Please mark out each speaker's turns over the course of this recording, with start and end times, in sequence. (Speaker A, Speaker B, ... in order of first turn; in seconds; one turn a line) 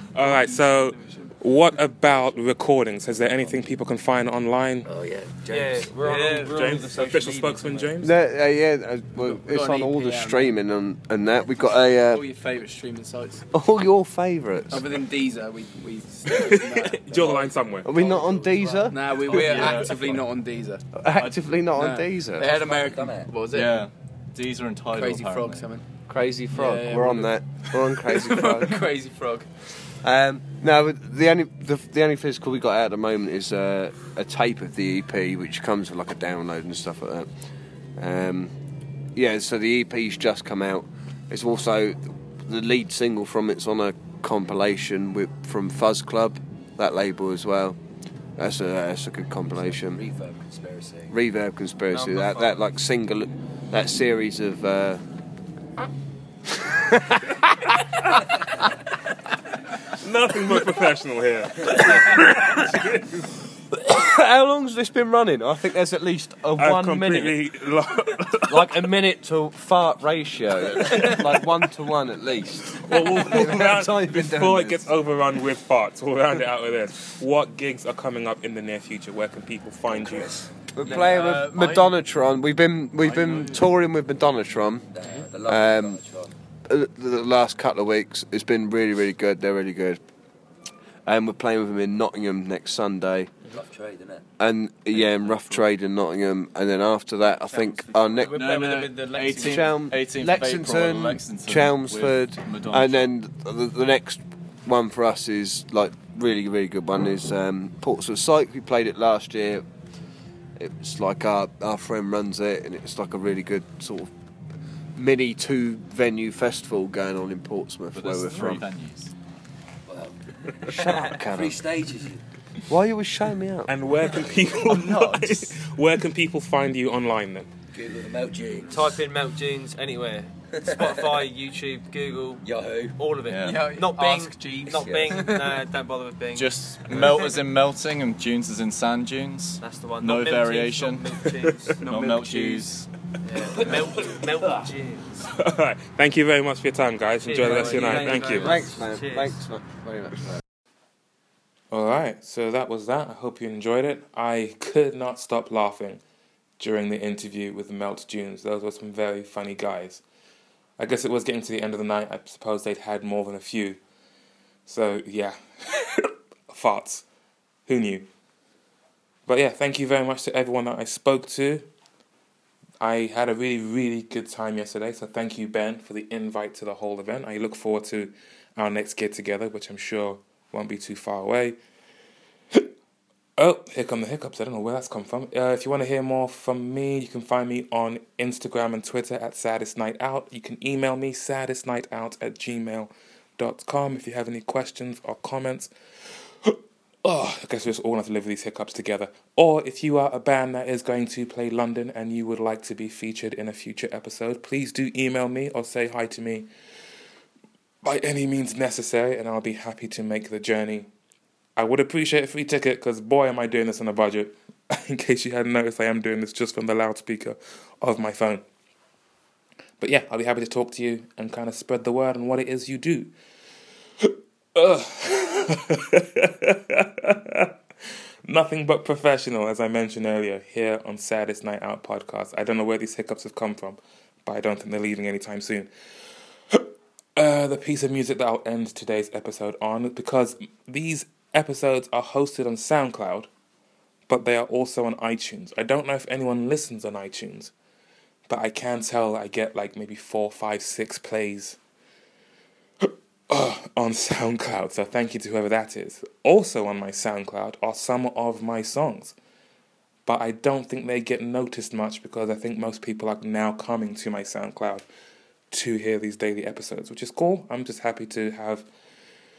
Speaker A: 0.1-4.9
Speaker B: 0.2-1.3
Speaker C: 4.8-6.5
Speaker D: 5.5-8.0
Speaker A: 6.5-8.1
Speaker E: 8.0-12.3
Speaker B: 9.2-10.6
Speaker B: 12.1-13.4
Speaker E: 13.5-15.0
Speaker B: 14.7-23.9
Speaker A: 16.3-17.9
Speaker E: 17.8-19.9
Speaker F: 19.3-20.2
Speaker E: 20.9-22.5
Speaker C: 22.5-23.4
Speaker F: 23.5-25.7
Speaker B: 24.9-29.5
Speaker E: 26.1-28.9
Speaker E: 30.0-37.4
Speaker E: 38.0-38.5
Speaker E: 39.1-47.8
Speaker E: 48.4-50.0
Speaker C: 49.5-51.2
Speaker E: 51.1-55.0
Speaker D: 51.9-52.6
Speaker A: 60.0-61.9
Speaker E: 63.7-67.4
Speaker A: 66.6-68.8
Speaker E: 68.5-74.9
Speaker A: 72.8-80.3
Speaker C: 79.9-80.5
Speaker E: 80.8-84.9
Speaker B: 80.8-81.8
Speaker F: 83.0-83.7
Speaker C: 84.9-86.3
Speaker E: 85.5-86.0
Speaker E: 86.7-90.0
Speaker E: 91.0-93.3
Speaker C: 93.4-94.3
Speaker E: 94.4-109.7
Speaker F: 94.9-95.7
Speaker B: 97.5-99.7
Speaker F: 98.3-103.1
Speaker E: 110.6-114.1
Speaker E: 115.0-118.7
Speaker F: 118.0-119.1
Speaker C: 119.9-122.2
Speaker E: 120.7-121.7
Speaker E: 122.7-123.7
Speaker A: 123.7-127.5
Speaker F: 124.6-125.5
Speaker C: 127.7-129.0
Speaker D: 128.7-137.1
Speaker C: 130.7-131.2
Speaker C: 132.4-133.0
Speaker F: 133.3-133.6
Speaker B: 133.5-135.2
Speaker C: 134.7-135.4
Speaker F: 136.3-141.2
Speaker D: 139.6-142.7
Speaker F: 141.8-142.9
Speaker D: 143.2-145.1
Speaker A: 145.4-148.5
Speaker D: 147.2-149.3
Speaker E: 147.6-150.4
Speaker A: 151.7-156.0
Speaker A: 156.6-160.0
Speaker A: 160.8-163.8
Speaker A: 164.7-167.1
Speaker A: 167.7-168.1
Speaker A: 169.3-171.7
Speaker A: 172.8-181.6
Speaker A: 183.4-195.7
Speaker A: 196.4-206.5
Speaker A: 207.8-210.9
Speaker A: 211.6-218.4
Speaker A: 219.8-223.1
Speaker A: 224.0-227.5
Speaker A: 228.3-235.7
Speaker A: 236.5-243.3
Speaker A: 244.1-247.5
Speaker A: 248.3-251.6
Speaker A: 252.8-259.2
Speaker A: 260.1-264.9
Speaker A: 265.5-268.7